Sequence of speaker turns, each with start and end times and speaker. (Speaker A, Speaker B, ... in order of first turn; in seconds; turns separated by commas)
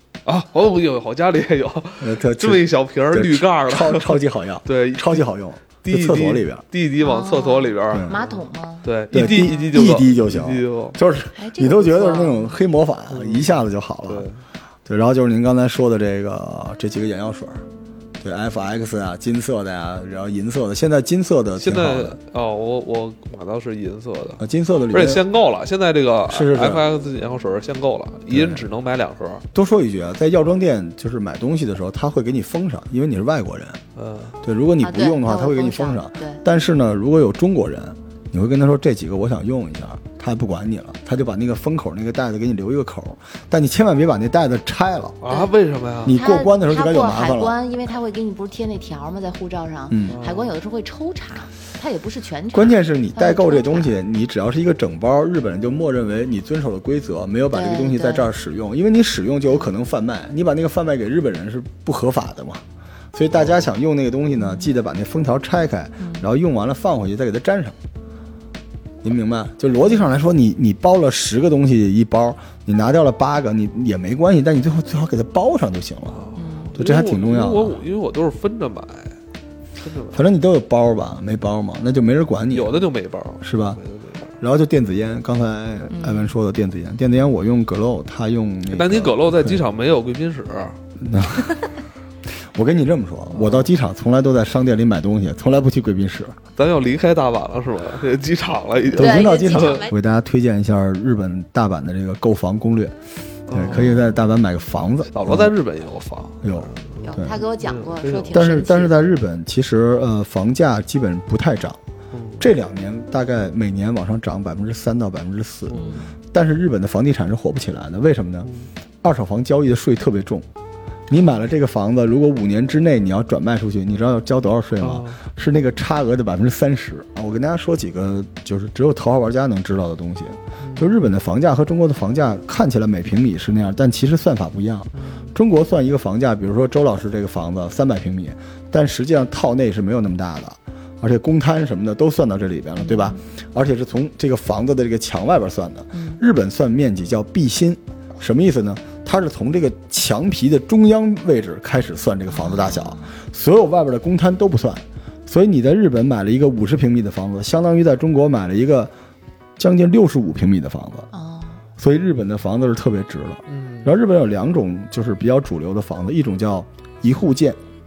Speaker A: 0.3-11.0, Speaker B: 2.0-6.6, Speaker C: 7.0-9.8, Speaker B: 7.9-8.2, Speaker B: 9.1-14.3, Speaker C: 11.3-12.6, Speaker A: 13.1-14.4, Speaker B: 14.9-17.6, Speaker B: 18.2-22.2, Speaker A: 21.6-29.4, Speaker B: 24.4-25.2, Speaker B: 26.3-26.9, Speaker B: 28.3-28.6, Speaker B: 29.5-33.8, Speaker A: 34.0-34.4, Speaker B: 34.4-45.2, Speaker C: 34.8-36.4, Speaker A: 45.2-46.2, Speaker C: 45.3-45.5, Speaker B: 46.0-47.5, Speaker C: 46.1-54.0, Speaker B: 49.9-50.2, Speaker A: 50.1-50.5, Speaker B: 52.5-67.8, Speaker C: 57.5-58.3, Speaker B: 69.0-77.8, Speaker A: 76.1-79.2, Speaker C: 76.3-76.8, Speaker A: 79.8-80.2, Speaker B: 80.1-82.8, Speaker A: 82.5-84.4, Speaker B: 83.4-83.8, Speaker B: 84.4-89.6, Speaker C: 85.9-86.3, Speaker A: 88.7-90.8, Speaker B: 91.0-91.6, Speaker B: 92.4-96.4, Speaker A: 93.3-93.7, Speaker A: 96.6-99.8, Speaker C: 98.9-100.0, Speaker B: 98.9-105.6, Speaker A: 103.5-104.1, Speaker C: 103.8-104.1, Speaker A: 105.1-108.5, Speaker B: 106.4-107.4, Speaker C: 107.0-109.1, Speaker B: 108.3-111.8, Speaker A: 112.1-112.5, Speaker B: 112.4-118.5, Speaker A: 115.7-116.0, Speaker C: 115.7-116.1, Speaker B: 119.0-120.5, Speaker B: 121.1-158.9, Speaker A: 124.8-125.2, Speaker A: 130.6-131.0, Speaker A: 134.9-135.3, Speaker C: 142.8-143.2, Speaker C: 145.9-146.2, Speaker C: 152.3-153.2, Speaker B: 159.6-161.1, Speaker C: 161.1-161.6, Speaker B: 161.8-167.6, Speaker A: 163.5-163.9